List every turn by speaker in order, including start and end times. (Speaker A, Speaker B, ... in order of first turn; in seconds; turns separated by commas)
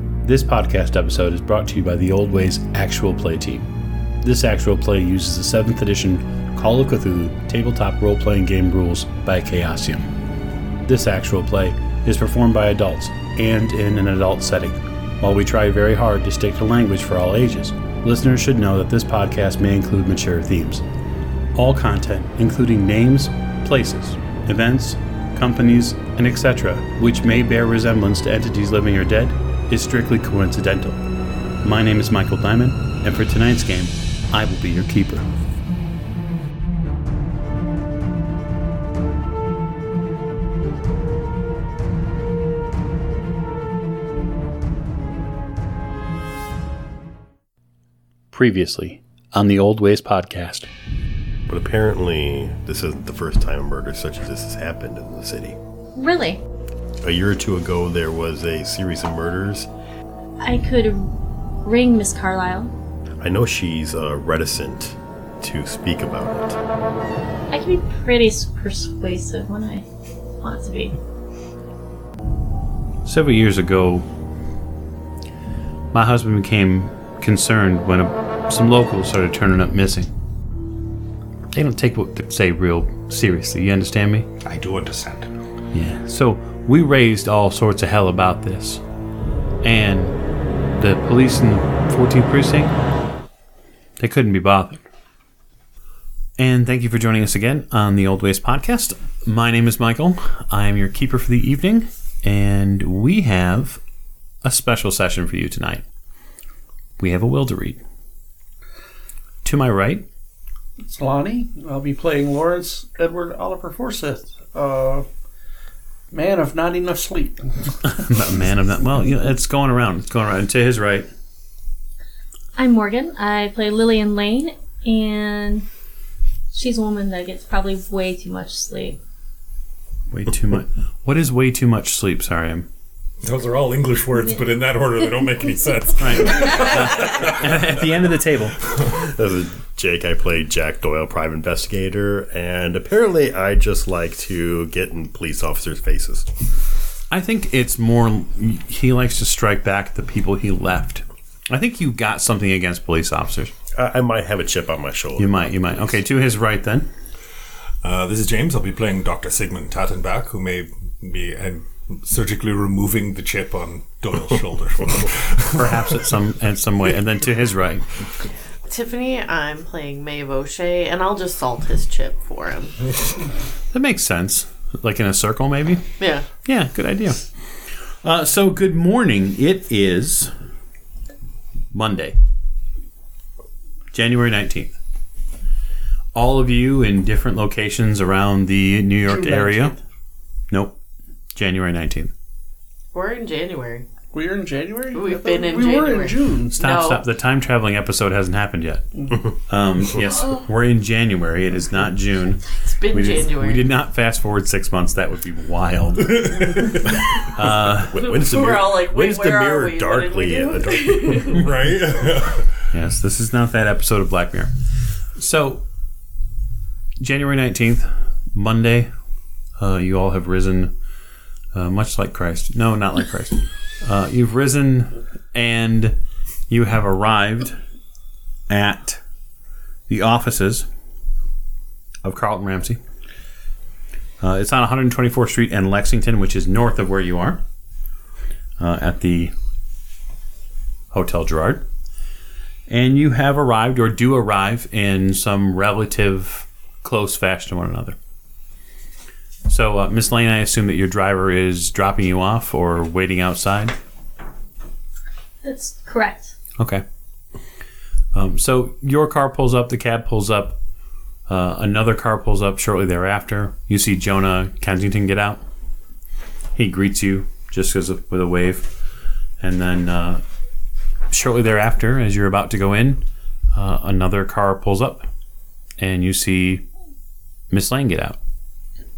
Speaker A: 0.2-3.7, Speaker A: 4.2-10.1, Speaker A: 10.8-20.8, Speaker A: 21.5-31.0, Speaker A: 31.6-35.3, Speaker A: 48.3-50.7, Speaker B: 51.5-55.6, Speaker C: 55.9-56.4, Speaker B: 57.0-59.7, Speaker C: 60.4-62.7, Speaker B: 63.2-66.6, Speaker C: 67.5-69.8, Speaker C: 70.4-71.0, Speaker A: 73.0-74.0, Speaker A: 75.9-80.1, Speaker A: 81.5-84.3, Speaker D: 84.4-85.3, Speaker A: 85.7-88.8, Speaker A: 89.6-90.2, Speaker A: 90.8-92.7, Speaker A: 94.0-94.8, Speaker A: 96.4-103.8, Speaker A: 104.4-105.8, Speaker A: 107.0-107.8, Speaker A: 109.4-110.0, Speaker E: 110.8-115.0, Speaker E: 116.1-117.8, Speaker A: 117.8-121.1, Speaker C: 122.5-125.7, Speaker C: 126.5-129.0, Speaker A: 130.1-132.7, Speaker D: 133.2-138.0, Speaker A: 136.0-138.6, Speaker B: 138.9-146.3, Speaker A: 147.1-153.5, Speaker B: 153.7-155.9, Speaker A: 155.2-156.9, Speaker D: 157.8-166.1, Speaker A: 165.5-167.9, Speaker F: 168.7-173.0, Speaker A: 173.7-175.8, Speaker F: 176.0-176.3, Speaker A: 176.4-177.3, Speaker A: 178.0-180.3, Speaker A: 181.7-182.2, Speaker A: 183.9-184.8, Speaker A: 186.1-189.8, Speaker E: 189.0-189.8, Speaker A: 190.5-190.8, Speaker A: 191.3-192.1, Speaker F: 192.9-193.9, Speaker E: 194.1-196.7, Speaker F: 194.9-197.0, Speaker A: 196.6-208.3, Speaker F: 202.6-203.7, Speaker B: 207.8-211.5, Speaker F: 208.0-211.4, Speaker D: 211.2-212.5, Speaker A: 212.7-214.5, Speaker A: 215.1-215.6, Speaker A: 217.0-218.9, Speaker A: 219.6-220.7, Speaker A: 221.5-226.0, Speaker A: 226.5-227.6, Speaker A: 228.5-229.0, Speaker A: 229.9-230.7, Speaker A: 232.0-232.8, Speaker A: 234.2-237.4, Speaker A: 238.6-239.3, Speaker A: 240.9-241.6, Speaker A: 242.7-247.9, Speaker A: 249.5-253.7, Speaker C: 255.4-256.3, Speaker A: 256.6-256.8, Speaker A: 258.1-260.6, Speaker A: 261.3-265.4, Speaker A: 266.5-268.7, Speaker A: 269.4-270.2, Speaker A: 271.1-275.1, Speaker A: 275.8-276.6, Speaker A: 277.5-278.2